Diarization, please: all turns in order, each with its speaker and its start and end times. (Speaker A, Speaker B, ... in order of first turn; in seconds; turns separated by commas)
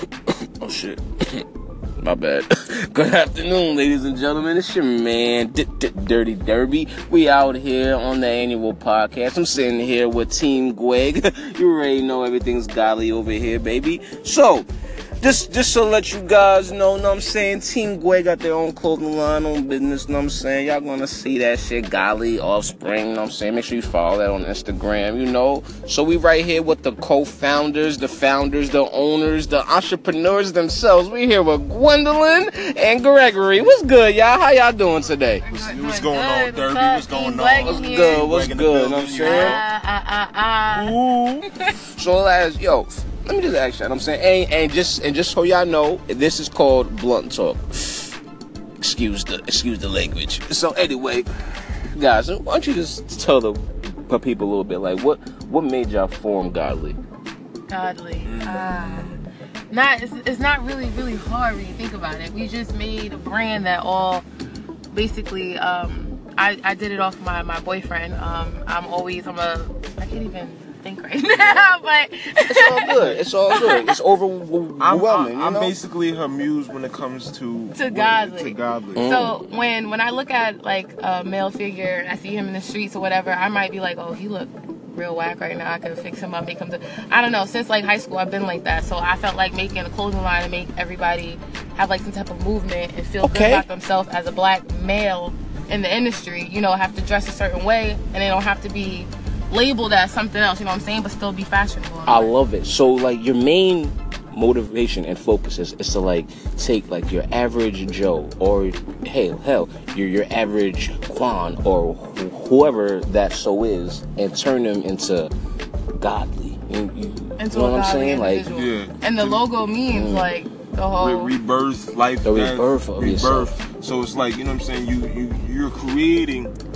Speaker A: 0.6-1.4, Speaker A: 2.0-14.7, Speaker A: 15.2-35.4, Speaker B: 35.4-38.3, Speaker C: 35.5-39.6, Speaker A: 37.6-39.6, Speaker B: 39.2-41.5, Speaker C: 40.7-41.5, Speaker A: 41.9-48.1, Speaker A: 48.8-57.0, Speaker B: 57.7-59.1, Speaker C: 58.2-59.2, Speaker B: 59.7-64.2, Speaker B: 64.9-74.0, Speaker A: 72.5-75.8, Speaker C: 74.8-79.1, Speaker B: 77.7-102.3, Speaker A: 79.0-79.4, Speaker A: 93.2-93.7, Speaker A: 102.0-115.3, Speaker A: 116.0-118.5, Speaker B: 117.4-121.3, Speaker C: 118.5-119.5, Speaker A: 119.9-120.3, Speaker C: 121.0-126.5, Speaker A: 122.2-123.5